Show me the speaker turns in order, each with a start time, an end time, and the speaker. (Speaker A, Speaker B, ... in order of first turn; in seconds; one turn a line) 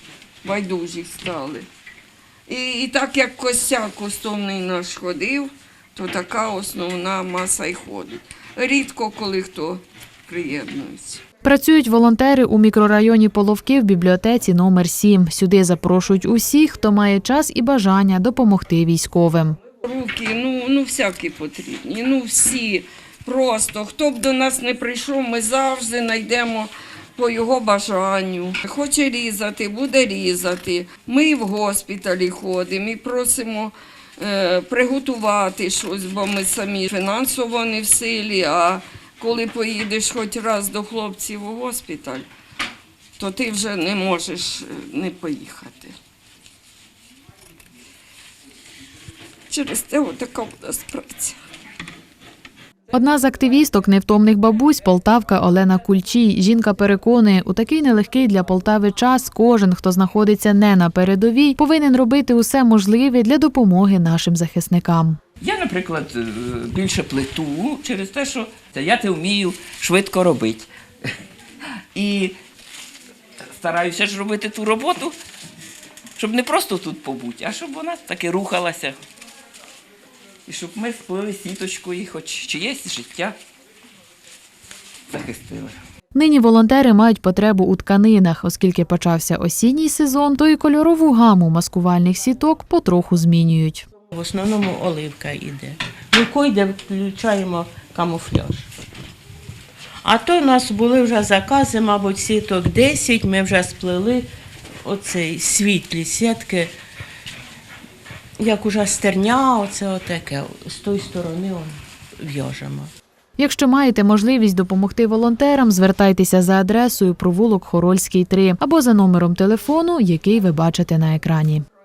Speaker A: 0.4-1.6
Speaker A: 2.5-11.2
Speaker B: 11.4-19.6
Speaker A: 19.8-42.3
Speaker A: 43.2-45.9
Speaker A: 49.5-51.4
Speaker B: 52.9-65.2
Speaker C: 65.4-71.1
Speaker C: 71.9-72.3
Speaker C: 73.5-75.2
Speaker C: 76.2-79.0
Speaker C: 80.5-83.3
Speaker C: 85.1-85.8
Speaker B: 86.1-93.8
Speaker D: 94.1-98.7
Speaker D: 100.0-104.3
Speaker D: 104.8-106.7
Speaker D: 108.4-112.9
Speaker B: 113.4-121.6